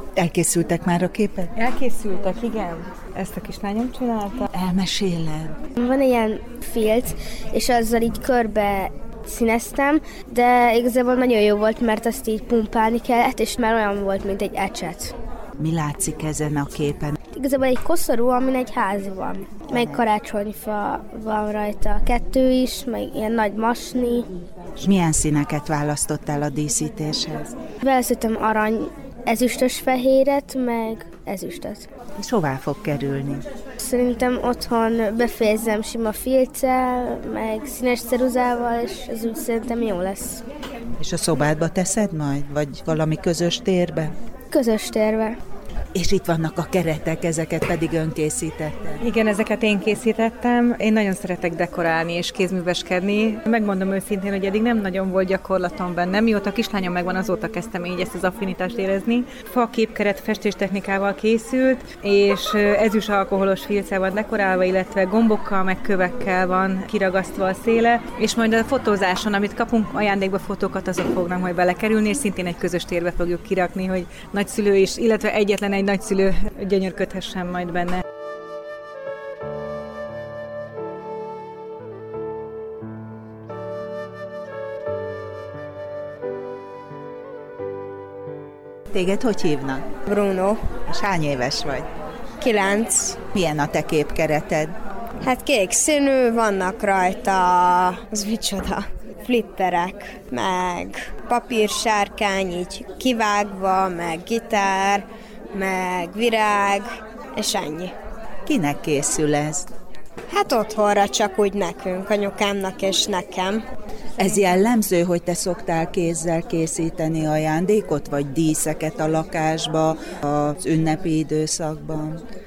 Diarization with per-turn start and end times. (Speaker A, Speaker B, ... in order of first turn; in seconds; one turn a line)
Speaker A: 0.2-1.5
Speaker B: 1.6-4.5
Speaker A: 4.5-5.6
Speaker C: 5.8-15.1
Speaker A: 15.6-17.2
Speaker C: 17.3-24.3
Speaker A: 19.7-20.0
Speaker A: 24.8-27.6
Speaker C: 27.8-31.9
Speaker A: 32.2-33.5
Speaker C: 33.8-40.4
Speaker A: 41.0-44.1
Speaker C: 44.5-45.4
Speaker A: 45.9-49.0
Speaker B: 49.0-78.0
Speaker A: 88.9-89.9
Speaker D: 90.1-90.6
Speaker A: 90.9-91.9
Speaker D: 92.4-93.2
Speaker A: 93.3-94.8
Speaker D: 95.2-107.9
Speaker A: 108.5-109.7
Speaker D: 110.3-113.6
Speaker A: 114.2-122.2